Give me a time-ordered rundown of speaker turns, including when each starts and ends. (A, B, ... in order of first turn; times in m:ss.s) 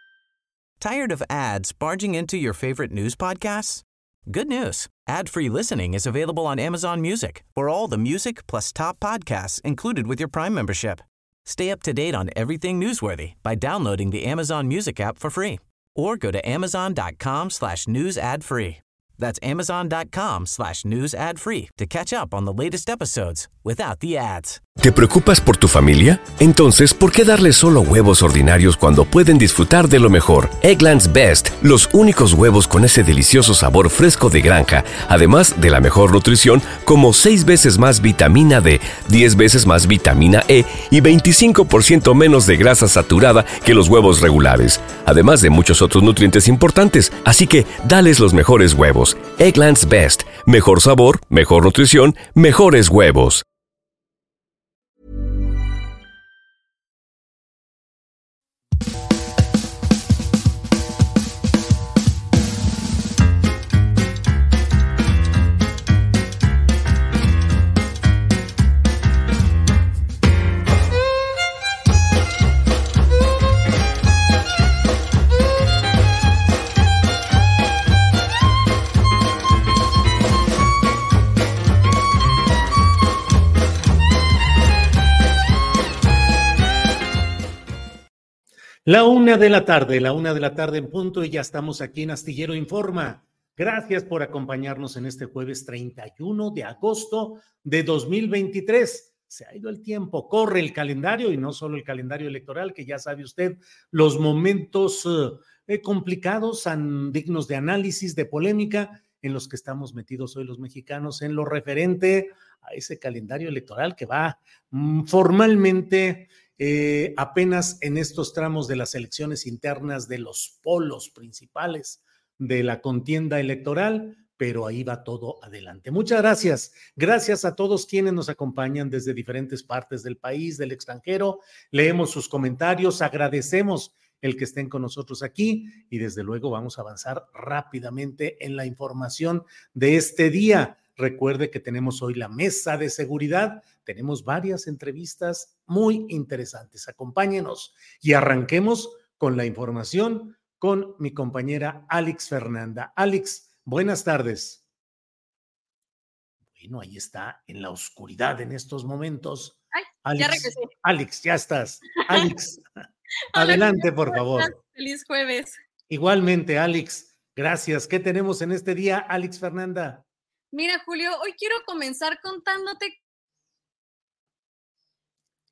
0:00.8-0:24.6 A
0:24.8-0:53.4 B
1:28.8-2:34.6 C
2:36.6-2:42.6 C
2:39.7-2:40.7 D
2:43.3-2:44.5 C
2:43.3-2:45.6 D
2:45.9-2:50.0 C
2:50.5-2:53.0 D